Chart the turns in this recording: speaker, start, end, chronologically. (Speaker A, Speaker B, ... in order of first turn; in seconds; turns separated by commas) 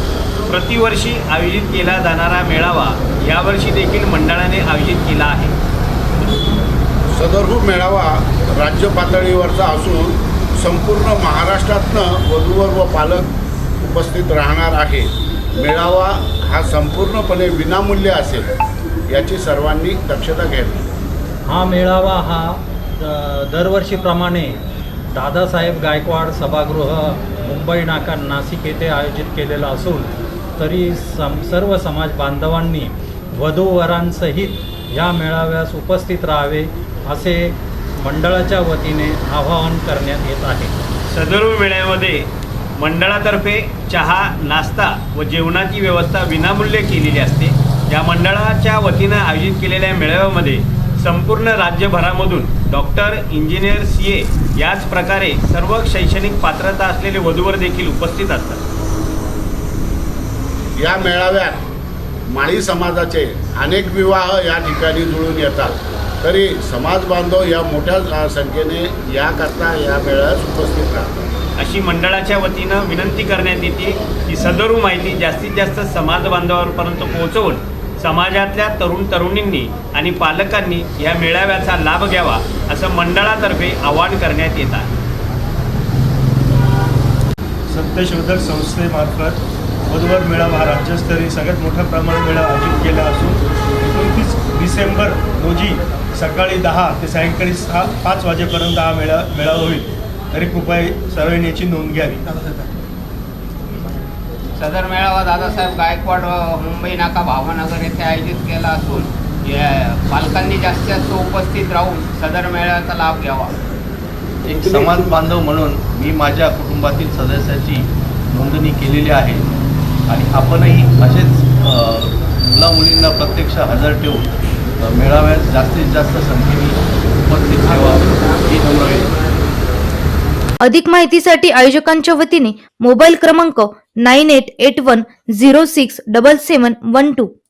Speaker A: 0.5-5.5, Speaker B: 7.1-13.3, Speaker B: 13.8-15.1, Speaker B: 15.6-18.4, Speaker B: 19.1-20.8, Speaker C: 21.5-24.5, Speaker C: 25.1-40.7, Speaker A: 41.1-42.3, Speaker A: 42.8-58.6, Speaker B: 60.8-61.6, Speaker B: 62.3-65.7, Speaker B: 66.2-71.2, Speaker A: 71.6-84.9, Speaker D: 87.7-102.4, Speaker E: 104.6-113.5, Speaker B: 114.5-115.1, Speaker F: 114.5-117.8, Speaker F: 118.4-119.4, Speaker F: 120.1-122.0, Speaker F: 122.6-124.2, Speaker F: 124.9-126.7, Speaker F: 127.3-129.1, Speaker G: 130.6-137.3